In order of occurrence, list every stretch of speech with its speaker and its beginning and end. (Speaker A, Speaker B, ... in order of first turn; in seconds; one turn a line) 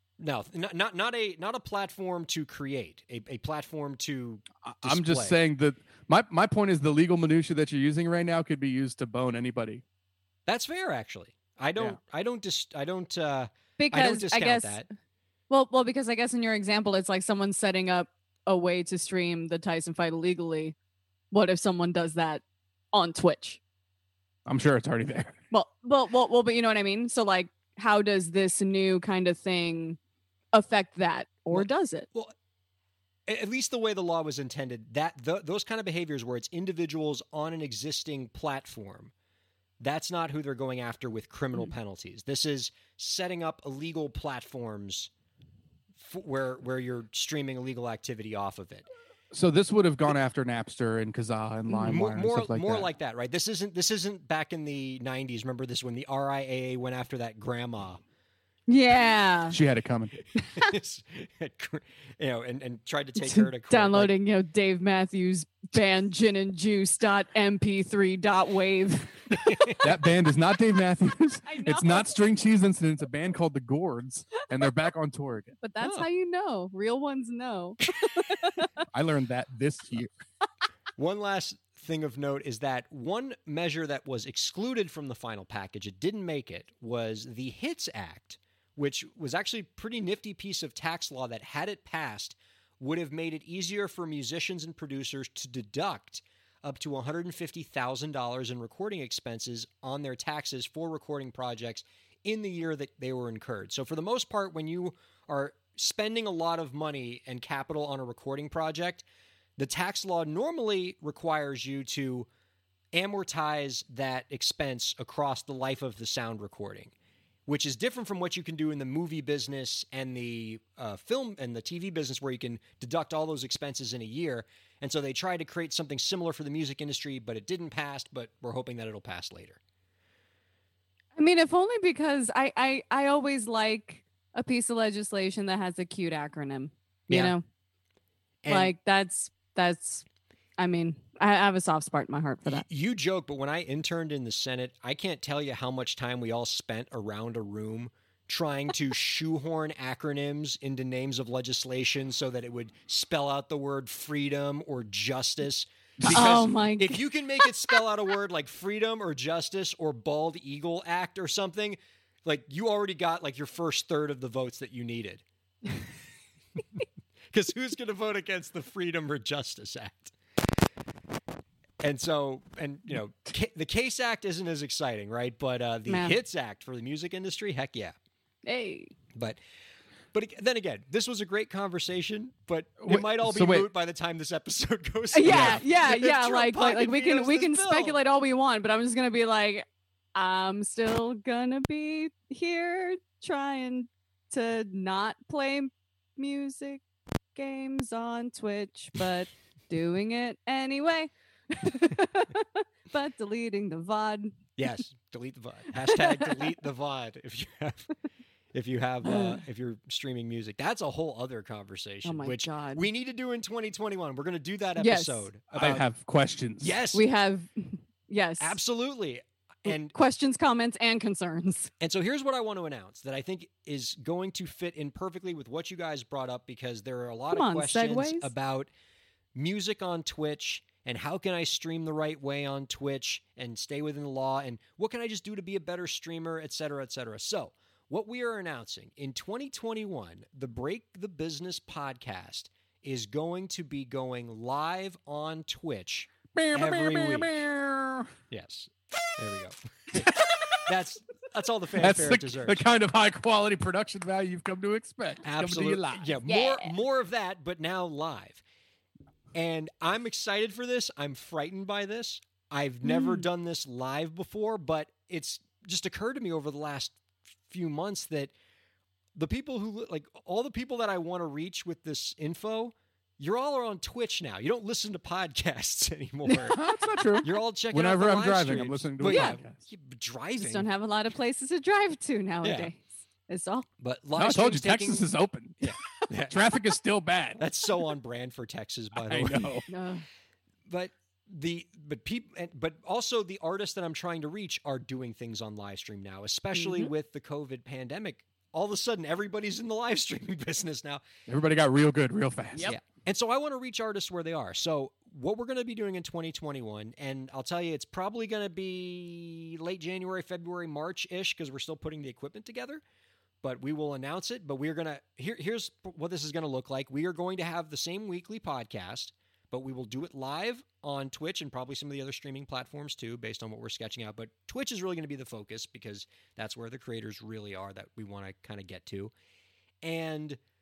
Speaker A: 0.2-5.4
Speaker B: 4.6-9.8
Speaker A: 10.5-14.9
Speaker C: 13.8-14.8
Speaker C: 15.5-20.8
Speaker C: 21.3-23.6
Speaker B: 24.5-25.4
Speaker C: 25.5-30.0
Speaker C: 30.5-32.1
Speaker A: 31.5-32.3
Speaker A: 33.3-39.1
Speaker A: 39.8-45.1
Speaker A: 46.0-48.9
Speaker B: 49.3-52.9
Speaker A: 51.8-58.0
Speaker C: 58.7-59.6
Speaker B: 59.5-60.1
Speaker A: 60.2-64.1
Speaker C: 63.2-69.8
Speaker A: 69.3-69.9
Speaker B: 69.8-75.5
Speaker C: 71.5-72.1
Speaker C: 75.6-78.7
Speaker A: 75.8-76.1
Speaker B: 78.9-80.1
Speaker A: 81.0-109.0
Speaker A: 109.6-112.3
Speaker A: 112.9-116.9
Speaker A: 117.5-129.6
Speaker C: 131.2-137.4
Speaker A: 138.4-138.7
Speaker C: 138.5-140.0
Speaker C: 140.6-142.7
Speaker A: 142.5-165.2
Speaker B: 156.0-156.4
Speaker C: 156.1-157.8
Speaker A: 167.3-170.2
Speaker A: 171.8-177.9
Speaker C: 175.9-176.2
Speaker C: 178.4-178.9
Speaker A: 179.1-179.4
Speaker A: 180.1-188.0
Speaker B: 182.8-183.7
Speaker C: 185.1-196.8
Speaker B: 185.3-185.6
Speaker C: 197.3-204.5
Speaker A: 204.6-207.9
Speaker C: 205.9-206.5
Speaker A: 208.5-215.9
Speaker C: 209.0-209.4
Speaker C: 212.1-212.9
Speaker C: 214.8-215.2
Speaker B: 215.6-216.8
Speaker A: 216.6-217.0
Speaker C: 216.9-218.6
Speaker A: 218.4-219.9
Speaker C: 219.7-221.7
Speaker A: 221.8-228.7
Speaker C: 227.3-228.3
Speaker A: 229.3-247.4
Speaker B: 246.3-248.1
Speaker A: 248.3-252.6
Speaker B: 250.0-250.6
Speaker B: 251.8-256.2
Speaker A: 255.2-258.4
Speaker C: 256.3-256.7
Speaker A: 259.3-267.0
Speaker C: 262.8-263.3
Speaker A: 267.5-268.3
Speaker A: 269.2-276.6
Speaker B: 276.5-279.6
Speaker A: 277.2-280.7
Speaker C: 279.1-279.4
Speaker C: 280.4-283.7
Speaker A: 282.4-282.7
Speaker A: 283.8-285.0
Speaker B: 284.2-285.7
Speaker A: 285.6-286.4
Speaker B: 286.3-287.4
Speaker A: 287.4-289.6
Speaker B: 288.9-289.6
Speaker C: 289.7-290.1
Speaker A: 290.7-301.0
Speaker C: 296.6-296.9
Speaker B: 301.3-302.7
Speaker A: 302.7-312.8
Speaker A: 313.4-329.1
Speaker A: 329.8-330.4